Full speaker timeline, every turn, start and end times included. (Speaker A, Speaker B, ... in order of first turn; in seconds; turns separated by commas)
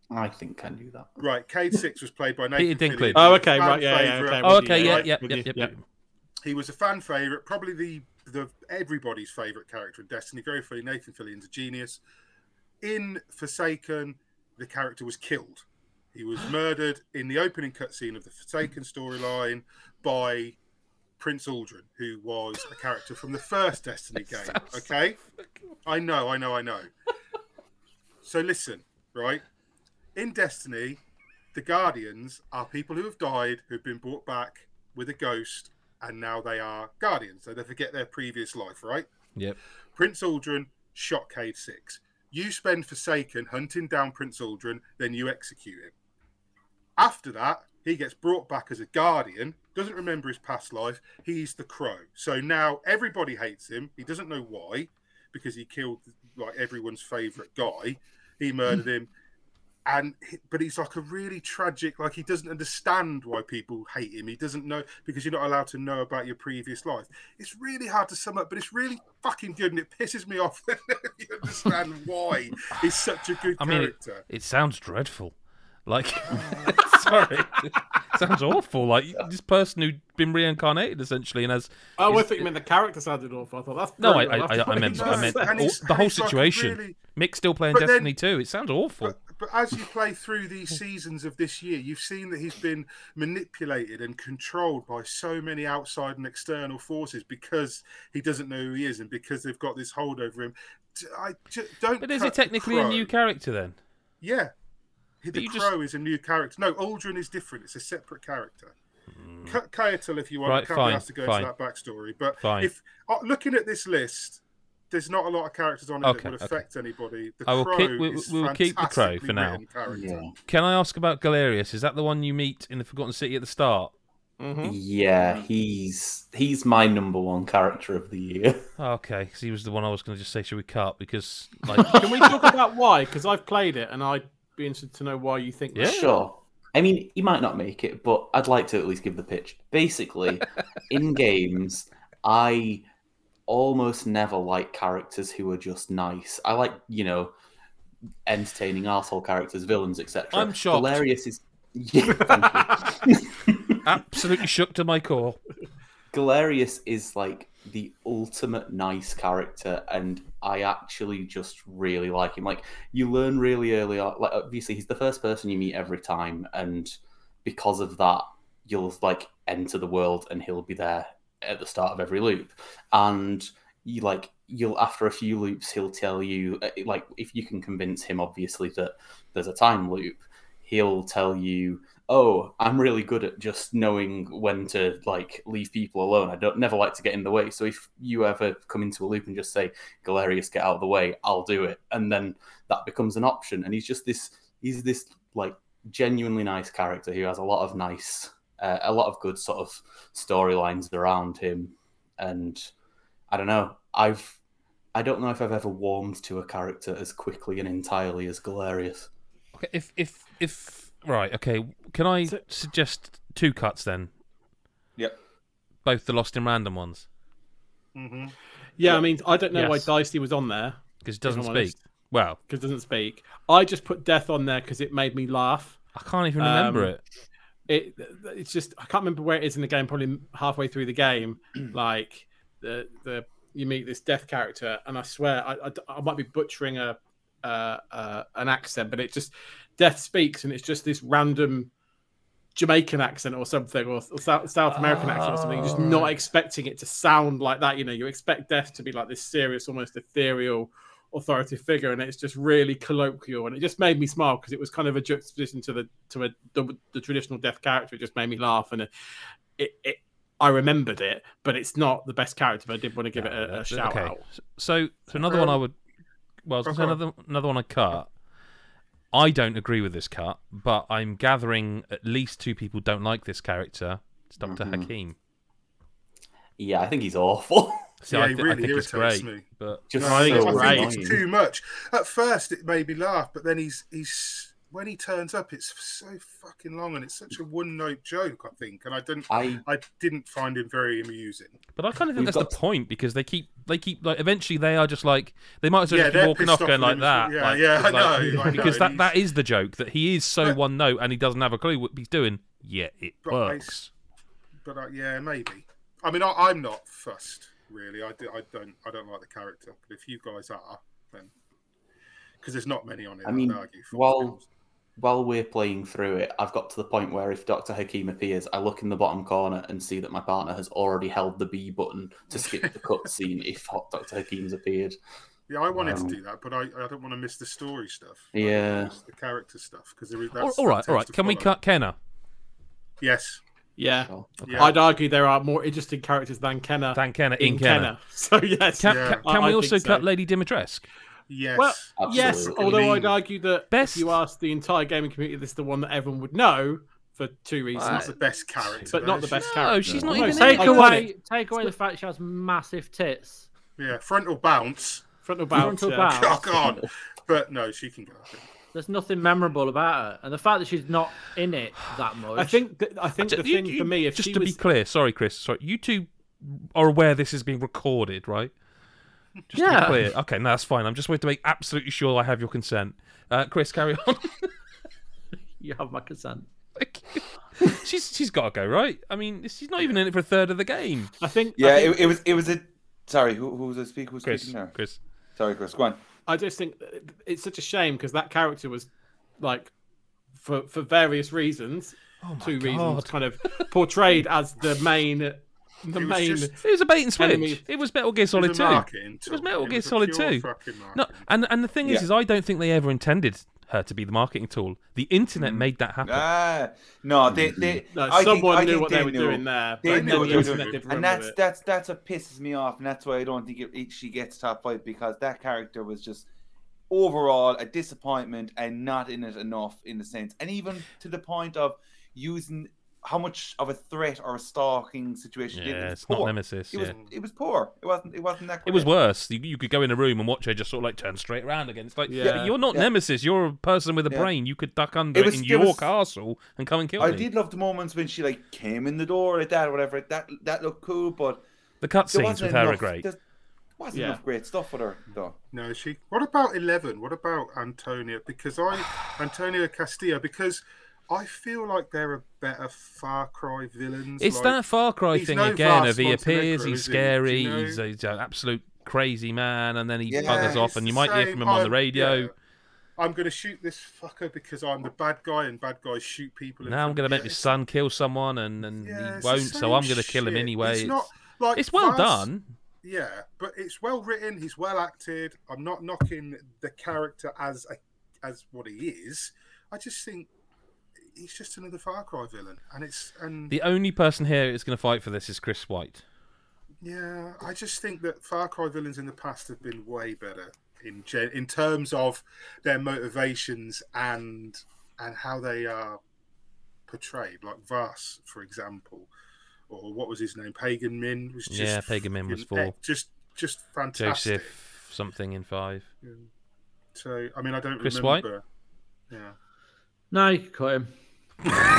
Speaker A: 0.1-1.2, Speaker B: 1.2-5.1, Speaker C: 2.6-3.3, Speaker D: 3.1-5.7, Speaker C: 4.4-5.8, Speaker B: 6.4-12.0, Speaker B: 12.8-20.6, Speaker B: 21.2-25.2, Speaker C: 24.2-24.9, Speaker B: 25.8-26.9, Speaker B: 28.2-29.4, Speaker B: 30.1-31.0, Speaker B: 31.5-39.1, Speaker B: 39.9-45.9, Speaker B: 47.0-59.1, Speaker B: 59.9-74.2, Speaker C: 73.6-75.3, Speaker C: 75.8-82.5, Speaker D: 82.0-85.6, Speaker C: 84.0-89.1, Speaker B: 84.7-87.0, Speaker B: 87.7-88.1, Speaker B: 89.0-103.1, Speaker C: 102.0-103.8, Speaker B: 104.2-104.5, Speaker B: 105.2-108.7, Speaker C: 105.3-105.7, Speaker C: 109.2-109.6, Speaker B: 109.5-120.2, Speaker C: 110.4-111.5, Speaker C: 112.4-112.7, Speaker C: 116.0-116.6, Speaker C: 117.5-119.6, Speaker A: 119.9-120.3, Speaker C: 120.5-123.9, Speaker D: 124.4-124.8, Speaker A: 124.6-128.6, Speaker C: 128.8-132.3, Speaker D: 131.8-136.2, Speaker C: 135.7-136.0, Speaker A: 135.8-142.8, Speaker A: 143.5-147.3, Speaker A: 148.2-153.8, Speaker C: 150.3-151.1, Speaker C: 153.8-155.4, Speaker A: 156.1-202.7, Speaker A: 203.3-204.4, Speaker A: 204.9-209.1, Speaker C: 209.5-214.1, Speaker C: 215.8-217.1, Speaker B: 217.9-218.3, Speaker D: 218.8-221.8, Speaker C: 221.0-222.4, Speaker D: 222.5-225.8, Speaker C: 225.9-227.0, Speaker D: 226.4-226.9, Speaker D: 227.7-241.7, Speaker D: 242.5-258.9, Speaker C: 244.7-246.1, Speaker D: 259.6-264.2, Speaker C: 263.1-265.7, Speaker B: 265.1-265.6, Speaker C: 266.4-268.1, Speaker B: 266.6-267.0, Speaker C: 269.1-275.1, Speaker A: 274.4-274.9, Speaker A: 276.6-277.9, Speaker C: 278.0-279.9, Speaker B: 278.1-291.6, Speaker A: 279.9-281.2, Speaker D: 280.0-280.9, Speaker A: 289.3-289.6, Speaker C: 291.8-303.9, Speaker A: 292.1-292.5, Speaker B: 295.9-299.1, Speaker A: 298.3-298.7, Speaker B: 303.2-303.8, Speaker B: 304.6-311.3, Speaker B: 312.4-314.4, Speaker A: 313.2-314.4, Speaker A: 315.0-324.9, Speaker B: 322.3-322.7, Speaker B: 325.5-331.5, Speaker A: 325.7-326.2, Speaker A: 328.3-328.9, Speaker C: 330.4-331.9, Speaker B: 333.0-333.4, Speaker D: 333.8-340.0, Speaker A: 334.1-334.4, Speaker C: 334.4-334.7, Speaker B: 334.4-334.8, Speaker C: 336.9-337.9, Speaker C: 338.8-340.9, Speaker B: 338.9-339.2, Speaker B: 341.3-343.1, Speaker D: 341.6-348.1, Speaker A: 342.0-343.1, Speaker C: 343.7-344.1, Speaker C: 347.7-351.1, Speaker B: 347.9-349.6, Speaker D: 348.9-351.1, Speaker A: 349.8-350.4, Speaker E: 350.1-353.5, Speaker B: 353.8-355.0, Speaker D: 355.2-356.3, Speaker E: 355.5-356.7, Speaker B: 356.0-358.5, Speaker E: 358.7-362.6, Speaker D: 362.3-364.6, Speaker C: 363.2-368.5, Speaker C: 369.5-374.5, Speaker E: 369.5-370.0, Speaker E: 375.6-376.5, Speaker C: 376.8-381.1, Speaker D: 381.2-382.3, Speaker F: 381.6-384.7, Speaker C: 384.2-385.0, Speaker F: 385.4-386.0, Speaker D: 386.3-388.9, Speaker D: 389.4-389.7, Speaker D: 390.4-396.6, Speaker C: 392.2-393.7, Speaker B: 395.9-396.5, Speaker C: 396.6-406.3, Speaker D: 397.2-397.6, Speaker B: 398.3-401.3, Speaker F: 405.4-416.3, Speaker A: 407.3-407.8, Speaker D: 407.9-411.4, Speaker B: 409.9-410.8, Speaker F: 416.9-428.9, Speaker C: 425.5-426.9, Speaker C: 428.6-437.3, Speaker D: 432.1-432.5, Speaker F: 432.2-432.9, Speaker F: 435.1-435.9, Speaker F: 437.0-441.4, Speaker C: 441.8-443.0, Speaker F: 442.1-443.2, Speaker F: 443.8-445.4, Speaker D: 443.9-444.2, Speaker B: 445.5-454.6, Speaker C: 454.2-462.3, Speaker B: 455.1-457.8, Speaker F: 460.1-460.7, Speaker B: 460.2-462.3, Speaker B: 463.0-467.5, Speaker C: 466.6-472.4, Speaker B: 468.8-472.3, Speaker B: 472.8-480.3, Speaker B: 481.1-483.5, Speaker C: 483.5-486.0, Speaker B: 486.8-496.0, Speaker B: 496.9-499.1, Speaker B: 499.7-504.5, Speaker C: 501.5-502.7, Speaker C: 503.9-505.9, Speaker B: 506.9-508.4, Speaker C: 507.8-508.2, Speaker E: 510.1-510.9